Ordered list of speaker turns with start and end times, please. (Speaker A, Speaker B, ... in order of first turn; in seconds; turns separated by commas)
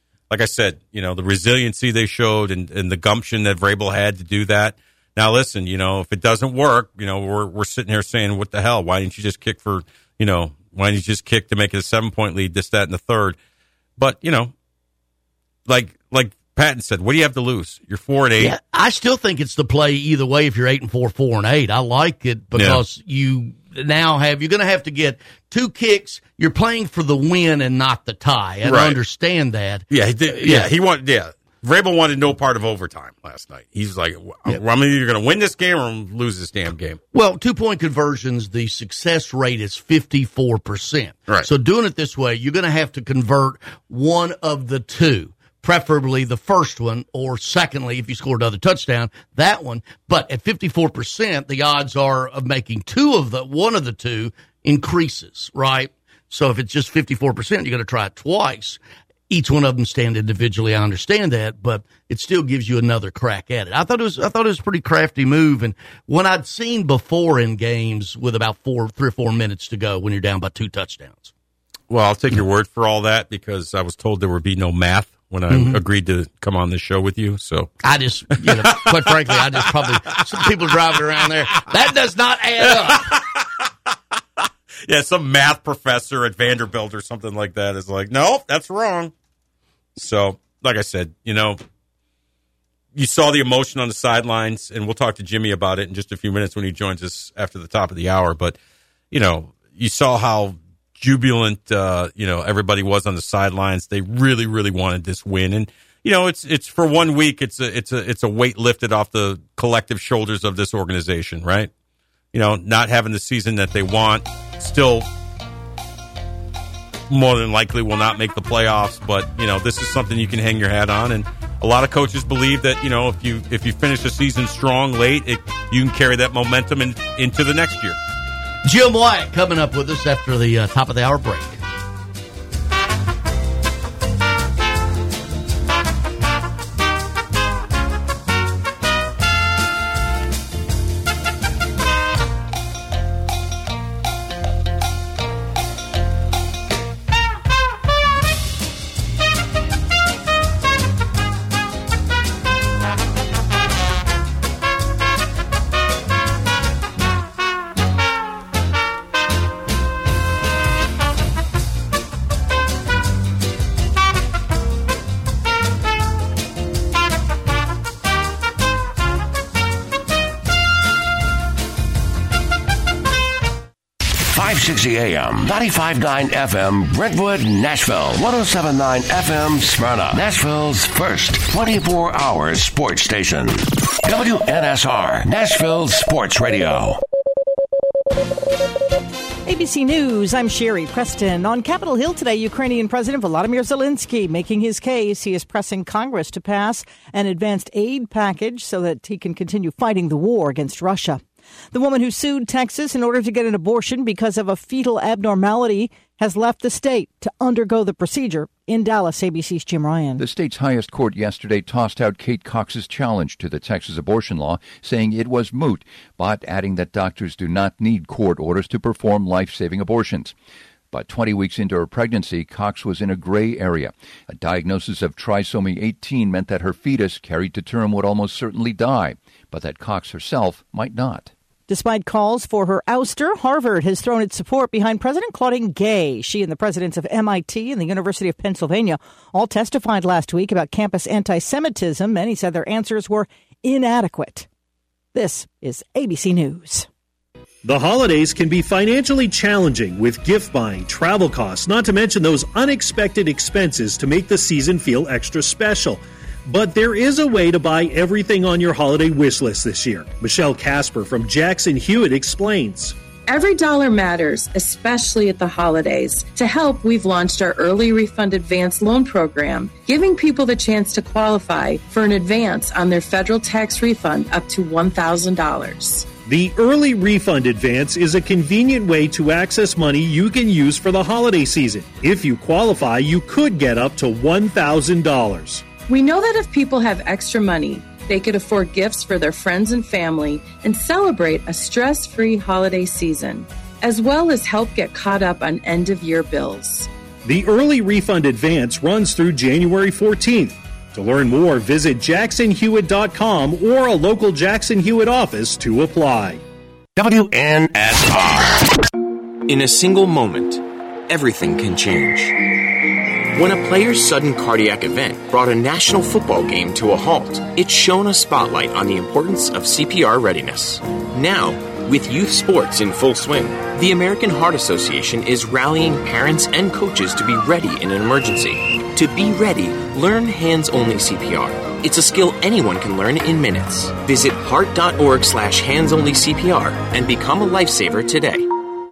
Speaker A: 0.3-13.4, Speaker A: 14.0-14.5, Speaker A: 15.7-18.5, Speaker B: 18.4-30.7, Speaker A: 22.6-22.8, Speaker A: 28.6-29.0, Speaker A: 29.9-37.0, Speaker B: 37.1-71.3, Speaker A: 71.9-77.7, Speaker B: 75.5-75.8, Speaker B: 77.8-83.1, Speaker A: 78.4-80.2, Speaker A: 82.7-83.7, Speaker A: 84.9-89.1, Speaker A: 90.0-91.6, Speaker A: 93.0-98.6, Speaker A: 99.1-111.7, Speaker A: 112.3-115.1, Speaker A: 117.1-128.0, Speaker B: 128.6-131.6, Speaker C: 174.2-187.0, Speaker D: 189.5-201.2, Speaker D: 201.7-210.2, Speaker E: 210.2-220.3, Speaker E: 220.9-231.3, Speaker D: 231.7-244.5, Speaker D: 245.2-246.9, Speaker F: 247.6-262.9, Speaker G: 263.3-276.1, Speaker F: 276.2-285.6, Speaker G: 285.9-296.9, Speaker F: 297.2-306.4, Speaker C: 307.0-308.6, Speaker H: 309.5-312.4, Speaker H: 313.3-338.5